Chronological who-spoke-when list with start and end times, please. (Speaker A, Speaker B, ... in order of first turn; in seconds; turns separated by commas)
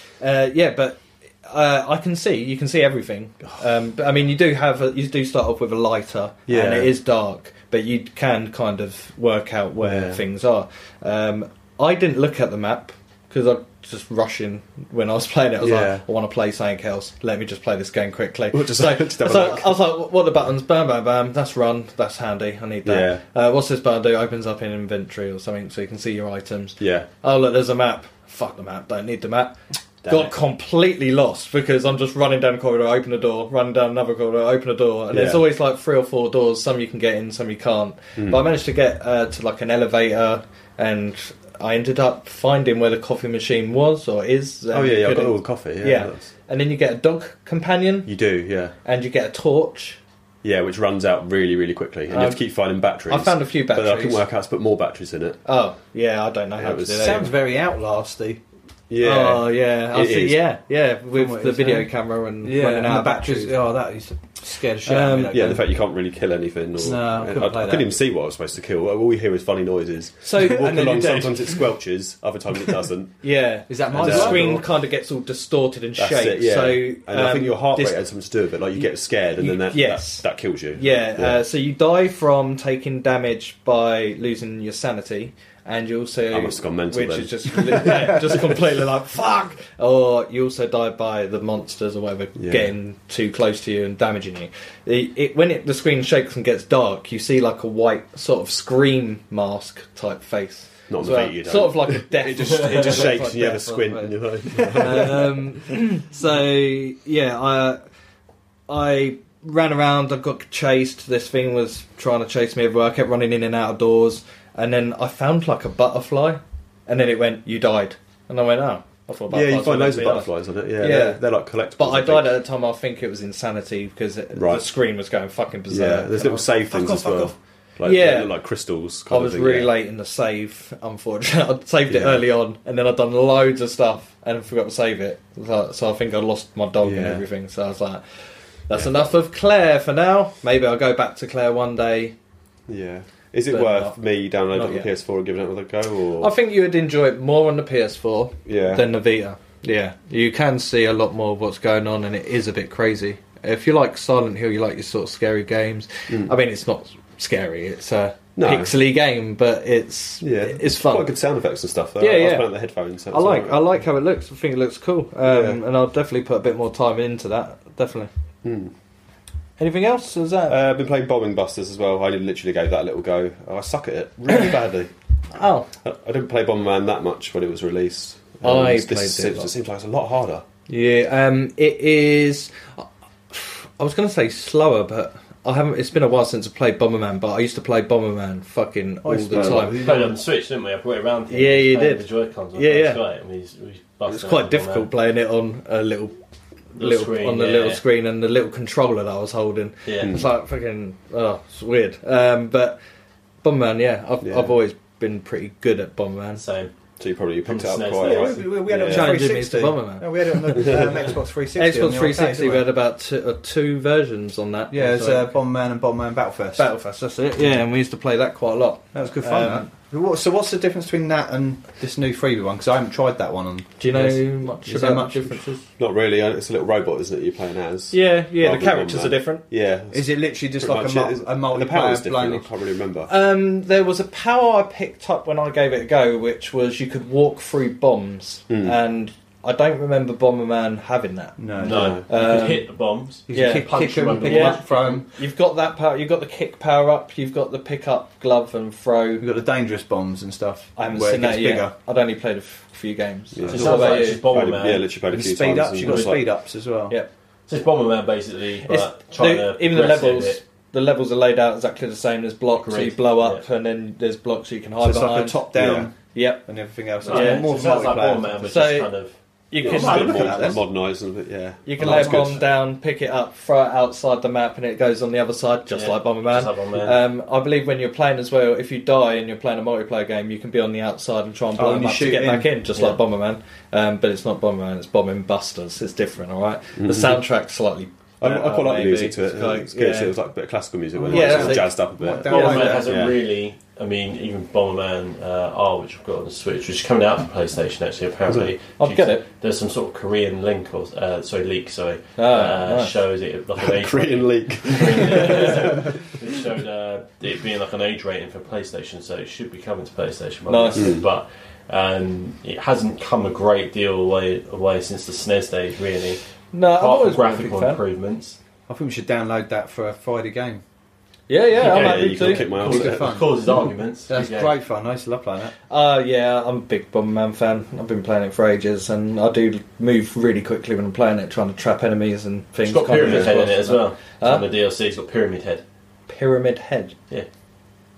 Speaker A: 0.2-48.1, Speaker B: 6.5-6.9, Speaker B: 9.8-10.2, Speaker B: 15.6-16.1, Speaker B: 18.5-19.8, Speaker B: 22.8-23.2, Speaker B: 26.8-27.1, Speaker B: 30.0-30.3, Speaker B: 35.1-35.4, Speaker B: 38.2-38.5, Speaker B: 44.7-46.3, Speaker B: 48.0-48.7, Speaker A: 48.8-50.0, Speaker B: 50.4-55.4, Speaker A: 52.1-52.4, Speaker A: 53.0-54.2, Speaker A: 55.4-57.3, Speaker B: 56.6-57.2, Speaker C: 57.0-58.4, Speaker B: 58.9-60.4, Speaker A: 59.0-63.7, Speaker C: 61.1-61.9, Speaker C: 62.4-65.7, Speaker A: 64.8-65.6, Speaker B: 65.3-73.2, Speaker C: 66.8-67.9, Speaker A: 70.2-71.4, Speaker C: 70.3-71.5, Speaker A: 73.2-78.0, Speaker C: 73.7-74.7, Speaker B: 73.9-74.6, Speaker B: 76.0-81.4, Speaker A: 79.4-107.8, Speaker B: 86.3-88.6, Speaker B: 92.4-92.7, Speaker B: 100.9-105.4, Speaker A: 108.7-121.2, Speaker B: 119.3-122.3, Speaker A: 121.8-126.5, Speaker B: 124.3-124.6, Speaker B: 125.7-129.7, Speaker C: 126.7-127.3, Speaker A: 127.8-128.3, Speaker A: 129.1-138.0, Speaker B: 131.9-132.2, Speaker B: 136.8-137.2, Speaker A: 138.7-142.1, Speaker B: 138.7-139.1, Speaker B: 142.7-146.3, Speaker A: 143.5-144.0, Speaker A: 144.5-144.9, Speaker A: 146.2-161.1, Speaker B: 148.4-148.9, Speaker B: 156.1-156.3, Speaker B: 158.4-158.7, Speaker B: 160.2-163.7, Speaker A: 162.0-162.5, Speaker A: 163.1-168.1, Speaker B: 165.2-165.6, Speaker B: 168.4-168.7, Speaker A: 169.6-170.6, Speaker B: 170.5-174.9, Speaker A: 175.3-175.7, Speaker B: 175.8-180.4, Speaker A: 178.4-179.5, Speaker A: 180.7-189.9, Speaker C: 189.0-190.2, Speaker B: 189.3-189.6, Speaker D: 189.6-194.9, Speaker A: 191.3-193.0, Speaker A: 194.1-196.1, Speaker A: 196.7-202.8, Speaker D: 196.8-197.8, Speaker D: 199.8-200.2, Speaker B: 200.0-200.3, Speaker A: 203.4-206.4, Speaker B: 204.2-204.5, Speaker D: 206.4-206.7, Speaker B: 207.0-209.2, Speaker D: 207.4-208.5, Speaker C: 208.0-212.7, Speaker A: 208.8-210.9, Speaker B: 210.6-210.9, Speaker A: 211.6-215.3, Speaker C: 214.7-216.7, Speaker A: 216.6-219.7, Speaker C: 218.9-225.4, Speaker A: 223.8-225.6, Speaker B: 225.8-233.1, Speaker A: 227.9-229.4, Speaker C: 229.9-232.5, Speaker A: 233.1-241.4, Speaker B: 238.5-238.8, Speaker C: 241.4-242.0, Speaker D: 241.6-245.1, Speaker B: 241.7-242.0, Speaker A: 242.1-242.7, Speaker C: 243.3-245.1, Speaker A: 243.3-249.3, Speaker C: 249.2-251.7, Speaker A: 250.8-254.2, Speaker B: 253.3-256.2, Speaker C: 253.5-254.0, Speaker D: 253.5-254.9, Speaker C: 255.1-257.0, Speaker D: 255.8-256.2, Speaker D: 257.5-260.4, Speaker A: 258.6-265.5, Speaker D: 262.6-263.4, Speaker C: 264.8-268.5, Speaker B: 265.6-265.9, Speaker A: 266.1-266.4, Speaker D: 267.0-269.1, Speaker A: 267.1-267.7, Speaker A: 268.4-268.9, Speaker A: 269.5-270.6, Speaker B: 269.6-272.4, Speaker C: 269.6-270.6, Speaker A: 271.6-290.1, Speaker C: 271.8-272.4, Speaker D: 275.7-277.0, Speaker C: 281.6-282.6, Speaker B: 286.8-287.2, Speaker B: 288.2-293.2, Speaker C: 290.9-293.1, Speaker A: 291.1-291.8, Speaker D: 292.2-316.2, Speaker A: 292.3-292.8, Speaker B: 298.3-298.5, Speaker A: 298.8-299.2, Speaker A: 302.2-302.9, Speaker B: 303.6-306.1, Speaker A: 310.5-311.0, Speaker B: 310.7-311.1, Speaker A: 316.5-317.8, Speaker D: 316.7-318.4, Speaker C: 318.7-320.6, Speaker A: 321.3-322.5, Speaker D: 321.6-324.5, Speaker B: 321.6-323.1, Speaker C: 322.6-323.5, Speaker C: 324.1-325.6, Speaker A: 325.7-334.4, Speaker D: 332.6-335.6, Speaker B: 333.0-333.3, Speaker A: 336.1-336.9